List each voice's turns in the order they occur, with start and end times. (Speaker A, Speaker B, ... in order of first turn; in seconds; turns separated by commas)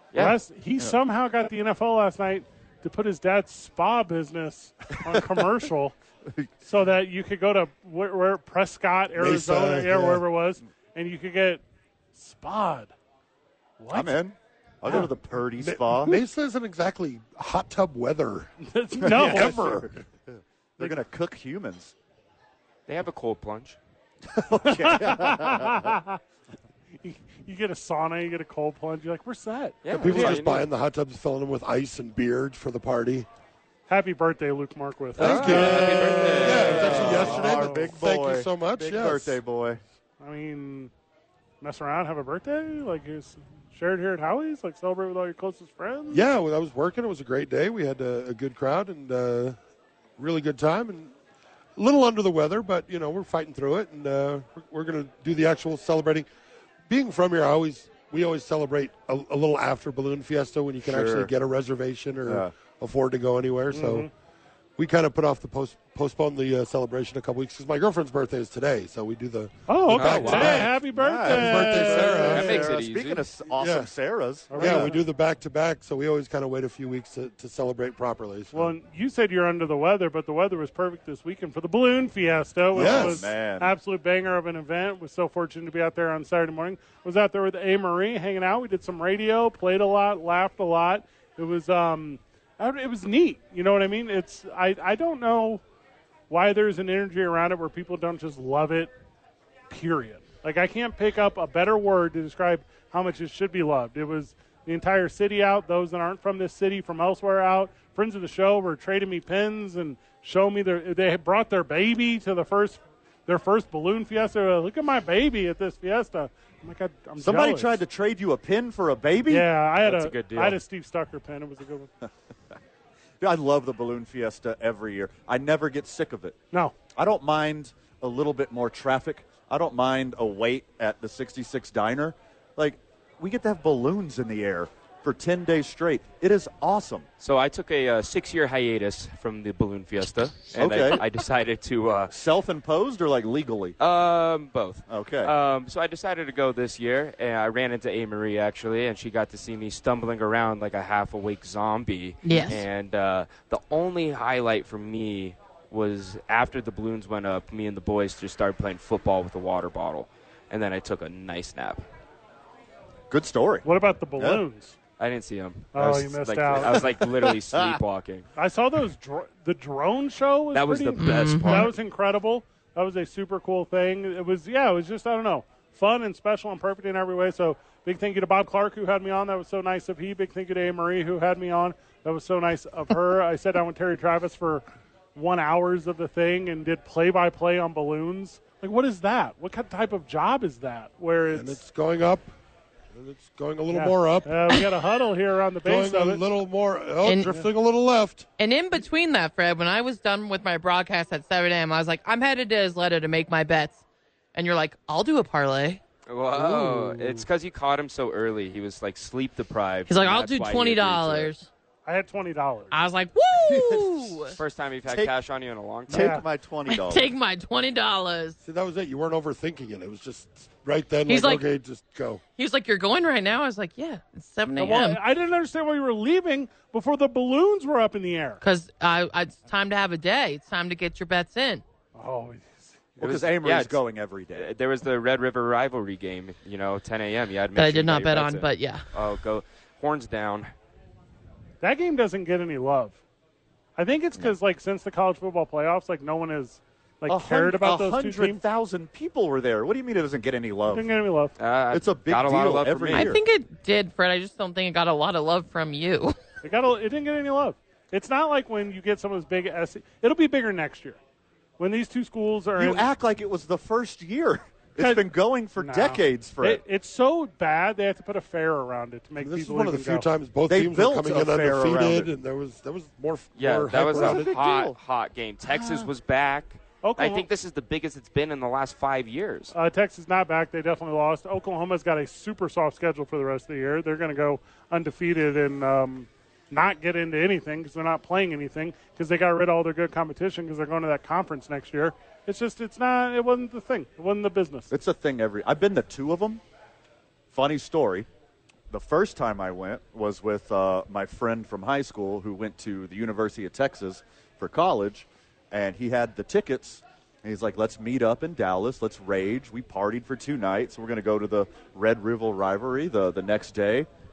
Speaker A: 0.1-5.9, Speaker A: 6.6-11.6, Speaker B: 9.2-10.2, Speaker A: 12.1-12.9, Speaker A: 13.8-14.2, Speaker C: 13.9-16.2, Speaker B: 15.6-20.0, Speaker A: 18.6-19.8, Speaker C: 19.0-21.9, Speaker D: 22.9-23.8, Speaker C: 24.3-26.0, Speaker A: 24.7-26.2, Speaker A: 27.0-30.4, Speaker D: 29.8-30.7, Speaker B: 29.9-33.3, Speaker A: 33.9-37.9, Speaker B: 35.2-39.4, Speaker D: 35.2-37.3, Speaker C: 35.2-39.8, Speaker A: 40.2-40.9, Speaker A: 41.6-46.2, Speaker B: 46.1-49.6, Speaker B: 50.2-51.1, Speaker B: 51.8-56.3, Speaker B: 56.9-64.1, Speaker C: 60.9-61.3, Speaker C: 62.3-62.5, Speaker A: 63.7-64.1, Speaker B: 64.8-72.6, Speaker A: 69.7-72.7, Speaker D: 69.9-70.7, Speaker C: 70.3-75.0, Speaker D: 72.3-73.2, Speaker B: 73.5-73.9, Speaker A: 74.5-75.0, Speaker B: 74.5-78.7, Speaker A: 78.5-95.6, Speaker C: 82.7-83.7, Speaker B: 82.8-83.2, Speaker A: 96.3-98.9, Speaker A: 99.7-117.8, Speaker C: 117.2-119.5, Speaker A: 119.3-121.9, Speaker D: 119.8-120.6, Speaker C: 123.2-126.4, Speaker C: 127.0-137.1, Speaker D: 137.2-142.1, Speaker C: 140.6-141.0, Speaker C: 142.1-143.8, Speaker D: 143.8-161.8, Speaker C: 144.9-145.3, Speaker E: 152.2-152.6, Speaker C: 163.1-163.7, Speaker A: 163.6-164.8, Speaker C: 164.2-164.4, Speaker D: 165.0-168.3, Speaker A: 165.7-166.9, Speaker A: 168.4-184.6, Speaker D: 170.5-171.7, Speaker E: 171.0-171.7, Speaker A: 185.2-191.6, Speaker B: 191.3-192.3, Speaker B: 192.9-194.6, Speaker A: 193.7-196.2, Speaker B: 195.7-198.3, Speaker E: 197.0-197.4, Speaker E: 198.4-203.8, Speaker E: 204.3-205.8, Speaker D: 206.1-211.3, Speaker A: 206.5-207.2, Speaker E: 209.9-211.5, Speaker A: 211.8-212.7, Speaker E: 212.7-214.4, Speaker C: 213.4-215.1, Speaker D: 214.3-216.2, Speaker C: 215.9-217.1, Speaker A: 215.9-216.2, Speaker E: 216.7-218.4, Speaker B: 218.4-222.2, Speaker E: 221.1-221.4, Speaker E: 222.4-225.0, Speaker A: 224.6-228.4, Speaker E: 228.4-231.6, Speaker A: 231.9-233.0, Speaker D: 233.0-233.8, Speaker C: 233.0-234.5, Speaker D: 234.3-240.5, Speaker E: 237.6-238.9, Speaker A: 241.6-243.0, Speaker A: 243.8-248.4, Speaker C: 247.1-250.9, Speaker A: 250.7-251.3, Speaker D: 251.4-253.1, Speaker C: 251.7-253.2, Speaker E: 252.9-256.2, Speaker A: 256.4-261.0, Speaker A: 261.6-262.9, Speaker C: 262.6-266.6, Speaker A: 264.8-265.1, Speaker A: 265.6-270.1, Speaker B: 269.2-274.3, Speaker C: 270.5-272.1, Speaker D: 273.4-279.5, Speaker C: 273.9-274.8, Speaker A: 275.6-275.9, Speaker A: 276.8-277.3, Speaker A: 279.5-294.7, Speaker C: 294.7-296.4, Speaker C: 297.3-298.1, Speaker C: 298.7-313.9